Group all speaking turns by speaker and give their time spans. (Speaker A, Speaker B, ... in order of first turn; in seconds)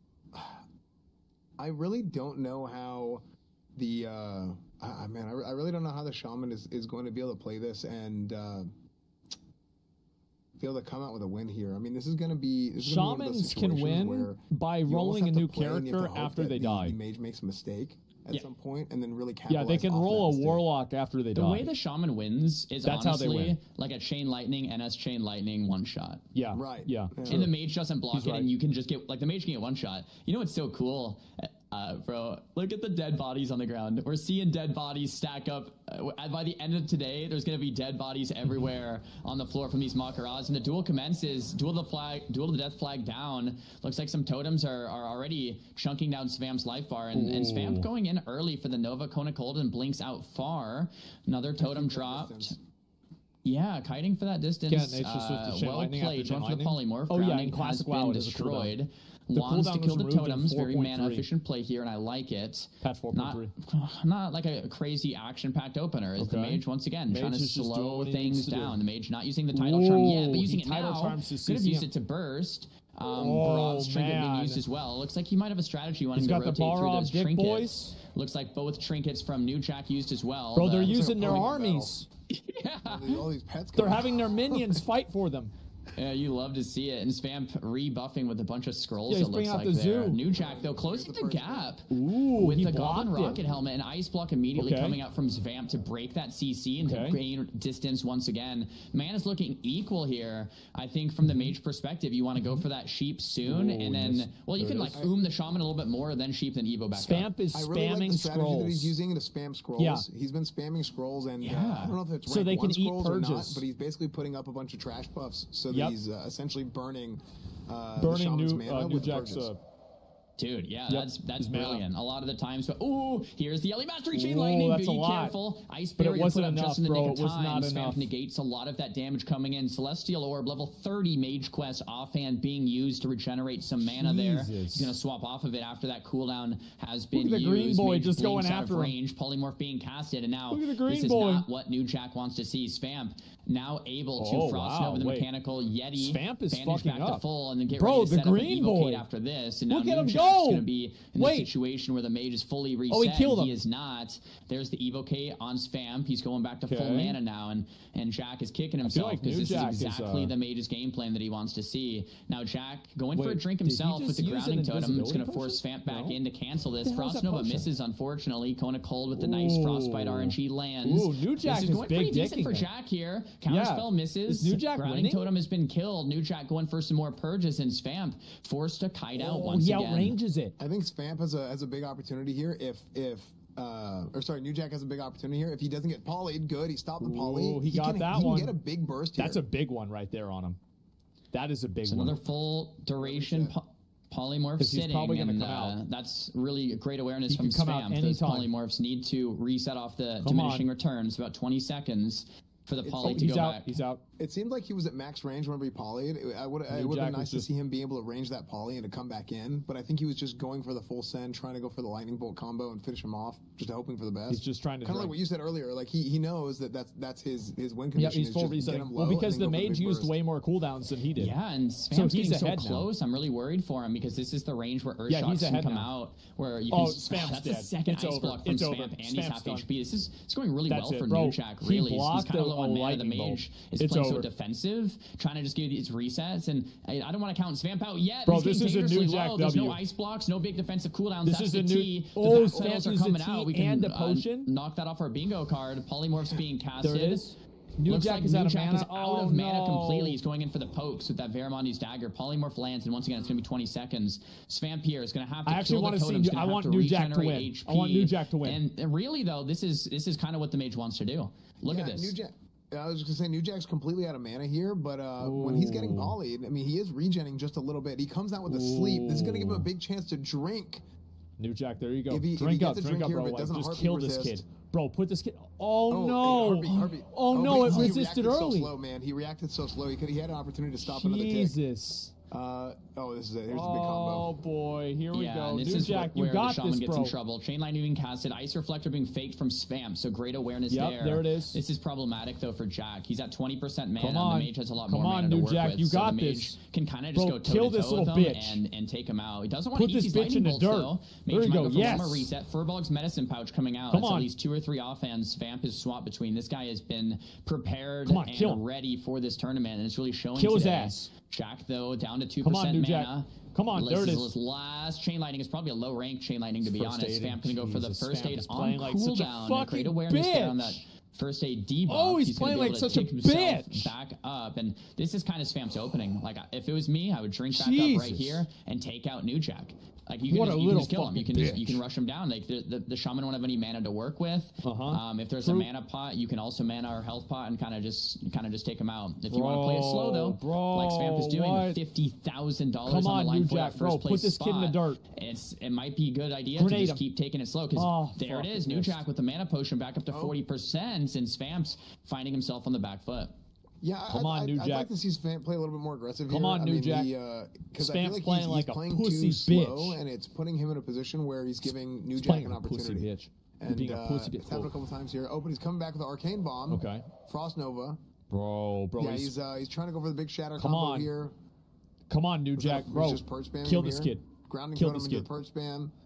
Speaker A: 0.3-0.6, 1.6-3.2, 3.8-8.7, 10.6-20.7, 26.5-27.5, 51.6-52.6, 80.8-82.0, 82.8-84.5, 90.2-91.8, 107.5-119.5, 180.6-189.4, 193.0-193.6, 202.8-203.3, 204.2-220.2, 261.7-270.8, 272.1-274.4, 275.9-281.6, 282.3-284.3, 350.1-350.4, 353.8-368.0, 369.0-371.3, 372.6-375.9
Speaker B: 12.8-17.0, 19.5-21.7, 22.9-23.6, 26.3-27.5, 28.1-28.5, 47.1-47.9, 54.7-58.7, 59.3-61.3, 62.8-63.5, 66.2-68.8, 69.5-71.9, 73.0-74.6, 76.2-78.0, 80.5-82.1, 83.8-85.5, 89.1-90.2, 91.9-93.4, 94.5-95.0, 96.8-97.2, 101.2-101.5, 102.4-102.6, 103.4-105.0, 106.9-109.0, 109.8-110.1, 112.3-113.7, 115.7-116.0, 118.0-119.6, 120.9-121.8, 124.1-125.4, 126.0-128.1, 133.8-135.0, 137.1-139.0, 140.5-141.5, 144.2-145.3, 146.0-149.1, 149.7-151.5, 152.9-153.6, 156.7-157.2, 158.8-160.3, 163.1-166.2, 166.8-167.7, 169.1-172.7, 173.5-175.3, 179.1-180.6, 187.0-188.6, 189.2-190.6, 191.3-192.2, 194.6-195.8, 197.3-198.5, 200.2-200.7, 203.1-204.0, 206.7-207.5, 214.3-215.2, 217.9-221.3, 221.9-222.9, 225.1-225.9, 226.7-229.7, 230.7-234.3, 238.2-239.8, 241.2-244.5, 246.8-250.2, 255.5-258.6, 265.2-266.2, 268.5-269.7, 271.4-278.7, 280.8-282.1, 283.5-287.2, 290.7-291.6, 294.0-296.6, 297.1-298.6, 299.7-302.3, 303.9-304.3, 308.1-308.6, 310.4-311.1, 312.4-314.3, 316.6-320.8, 321.9-323.9, 327.5-328.5, 330.3-331.8, 334.6-335.7, 339.3-341.8, 342.8-345.0, 346.6-347.0, 347.8-349.0, 354.1-354.9, 356.3-357.1, 357.8-360.0, 362.2-364.7, 366.7-367.1, 368.3-369.3, 370.6-371.1, 372.1-375.4
Speaker C: 21.4-26.2, 27.2-52.6, 53.4-81.4, 82.3-83.2, 86.0-107.3, 111.4-112.0, 120.4-180.2, 191.9-203.8, 221.2-247.3, 247.8-262.1, 285.1-353.3